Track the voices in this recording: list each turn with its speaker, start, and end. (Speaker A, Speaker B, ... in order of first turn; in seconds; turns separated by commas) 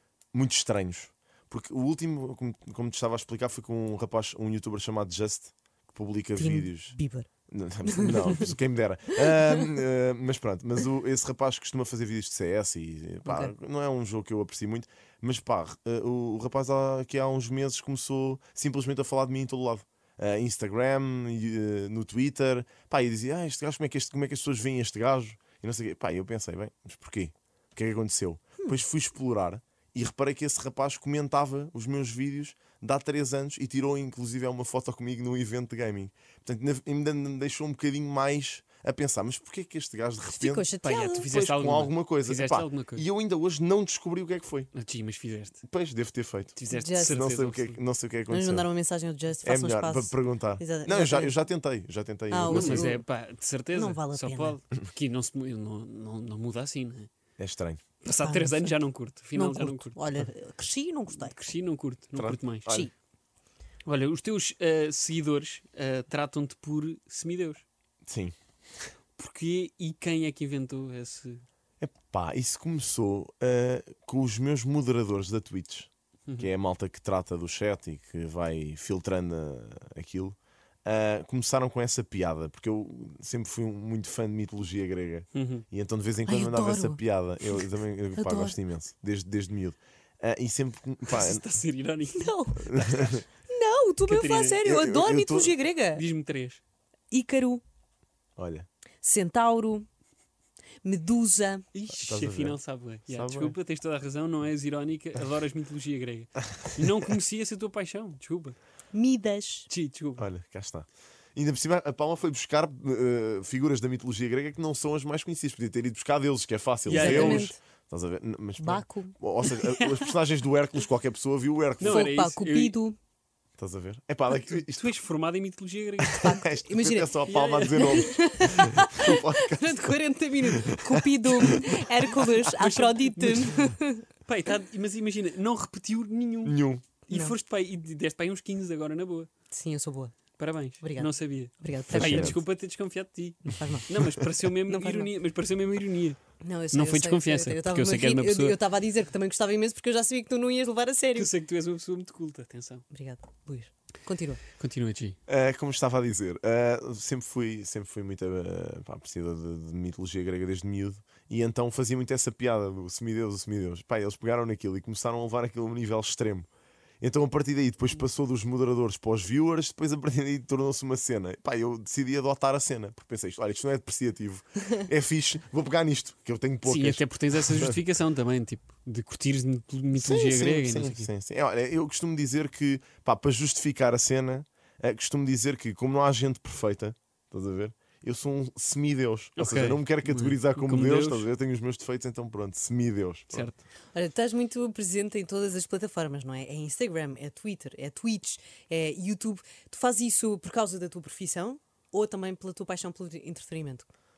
Speaker A: 0.3-7.0, Speaker B: 6.4-7.3, Speaker A: 7.5-40.7, Speaker B: 7.8-8.5, Speaker B: 13.2-13.5, Speaker B: 40.3-41.3, Speaker C: 40.8-43.0, Speaker A: 41.3-44.7, Speaker C: 44.7-45.6, Speaker A: 45.7-48.7, Speaker C: 46.6-47.8, Speaker B: 46.7-47.2, Speaker B: 48.3-51.4, Speaker A: 49.4-52.9, Speaker B: 52.3-53.0, Speaker C: 52.5-57.1, Speaker B: 53.7-54.6, Speaker A: 57.4-57.8, Speaker C: 58.0-60.0, Speaker B: 58.2-58.8, Speaker B: 59.3-61.4, Speaker C: 61.2-62.8, Speaker A: 62.2-62.9, Speaker B: 62.7-62.9, Speaker C: 63.9-67.6, Speaker A: 68.1-68.9, Speaker C: 69.2-71.4, Speaker A: 71.8-91.4, Speaker C: 85.3-85.7, Speaker B: 86.3-88.6, Speaker C: 91.1-93.2, Speaker B: 92.1-92.7, Speaker A: 92.6-93.2, Speaker B: 93.5-96.0, Speaker C: 94.1-94.6, Speaker A: 94.7-95.5, Speaker C: 96.0-96.6, Speaker B: 97.1-97.6, Speaker A: 98.4-98.7, Speaker B: 99.0-99.9, Speaker B: 100.8-101.7, Speaker C: 101.7-108.6, Speaker A: 101.9-103.6, Speaker B: 108.9-109.7, Speaker C: 109.7-110.3, Speaker A: 110.2-122.1, Speaker C: 116.9-117.5, Speaker B: 116.9-117.6, Speaker B: 118.6-119.2, Speaker C: 119.5-120.1, Speaker C: 121.8-122.8, Speaker B: 121.8-123.0, Speaker A: 123.6-124.9, Speaker C: 124.7-126.4, Speaker A: 126.2-131.8, Speaker B: 126.2-127.1, Speaker C: 127.3-128.1, Speaker B: 127.8-134.1, Speaker C: 132.4-133.7, Speaker C: 134.2-139.3, Speaker A: 136.4-136.9, Speaker B: 137.1-137.3, Speaker B: 139.5-140.2, Speaker C: 140.4-146.2, Speaker B: 140.8-142.4, Speaker A: 141.8-142.4, Speaker B: 143.6-143.9, Speaker B: 144.7-145.1, Speaker B: 146.4-151.3, Speaker C: 146.7-148.6, Speaker C: 151.2-152.8, Speaker B: 152.9-154.4, Speaker C: 154.6-155.2, Speaker A: 155.3-166.5, Speaker A: 167.0-177.8, Speaker C: 176.7-181.1, Speaker A: 179.9-193.5, Speaker C: 189.4-191.3, Speaker C: 193.3-193.6, Speaker B: 193.9-203.9